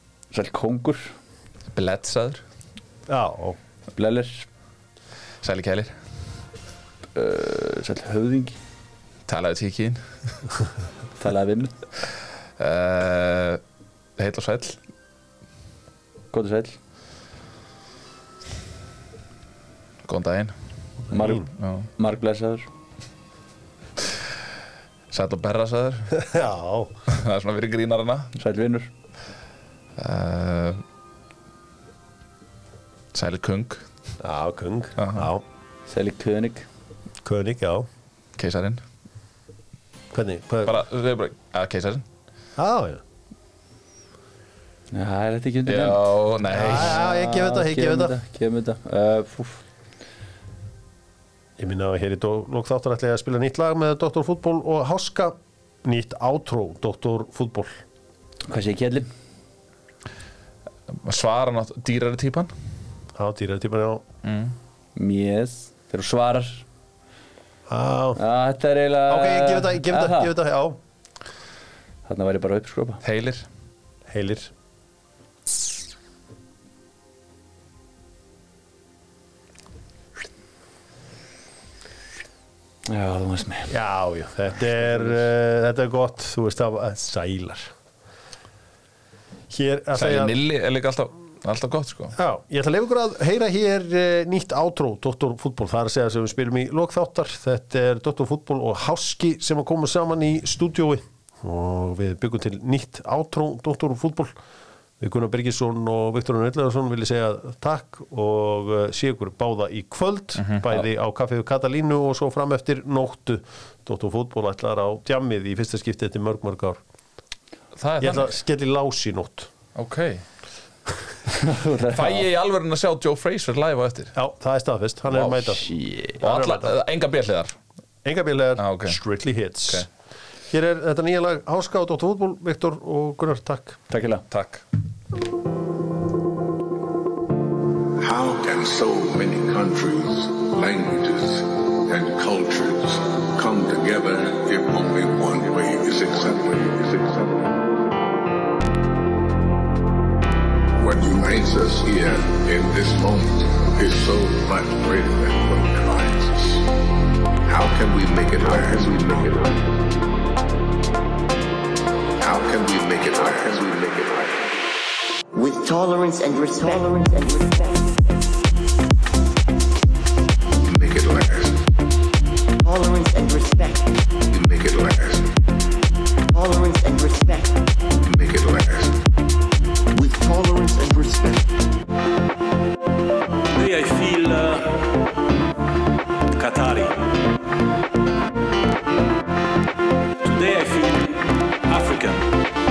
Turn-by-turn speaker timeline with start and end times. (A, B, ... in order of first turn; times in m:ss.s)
0:00.3-0:01.1 A
0:01.7-0:02.4 B
0:03.1-0:03.6 C
0:03.9-0:04.5 A
0:05.4-0:06.0 B
0:07.1-0:08.6 A
0:09.2-0:10.0 B
0:11.2-0:11.7 A
0:12.6-0:13.6 B
0:14.2-0:14.8 B
0:16.3-0:16.8 A
0:20.0-0:20.5 B
0:21.1-0:21.4 C
0:21.1-0:21.4 A
0:21.5-0:21.9 B
0:22.0-0:22.7 A
0:25.1-0:26.1 B
0:26.2-0:26.9 C
0:27.1-0:28.3 B
0:28.4-0:28.9 A
0:30.0-0:30.8 B
0:33.1-0:33.8 B
0:34.2-0:35.4 C
0:35.0-0:35.3 B
0:35.9-0:36.6 A
0:37.2-0:37.9 C
0:38.4-0:38.8 B
0:40.1-0:40.8 C
0:40.6-0:42.0 B
0:42.6-0:43.0 C
0:44.9-0:49.6 A
0:45.6-0:47.0 B
0:46.5-0:48.1 C
0:51.6-0:57.8 C
0:58.5-0:59.1 A
1:00.9-1:02.5 B
1:03.2-1:04.0 C
1:04.2-1:04.5 B
1:05.0-1:06.6 A
1:07.7-1:08.2 C
1:08.2-1:10.3 A
1:09.1-1:10.8 C
1:12.0-1:13.0 A
1:13.0-1:13.5 B
1:14.1-1:14.5 C
1:22.9-1:23.7 A
1:23.7-1:27.7 C
1:24.8-1:25.1 A
1:29.5-1:30.3 C
1:29.9-1:32.2 B
1:32.2-1:44.3 C
1:45.0-1:56.8 C
1:50.4-1:50.8 B
1:57.7-1:58.4 B
1:58.0-1:59.5 C
1:59.7-2:00.2 B
2:01.3-2:02.3 A
2:01.9-2:04.2 B
2:04.2-2:06.8 C
2:05.1-2:07.6 B
2:08.0-2:09.9 C
2:08.6-2:09.0 B
2:10.5-2:13.8 C
2:13.9-2:14.2 A
2:14.3-2:14.6 B
2:18.0-2:27.6 D
2:30.8-2:36.7 D
2:37.4-2:39.8 D
2:42.2-2:44.6 D
2:45.3-2:48.2 E
2:50.6-2:51.6 D
2:52.6-2:54.0 E
2:54.3-2:55.3 D
2:56.3-2:57.6 E
2:58.0-2:59.0 D
2:59.9-3:01.6 E
3:03.6-3:04.6 F
3:10.2-3:11.0 F
3:11.7-3:12.1 F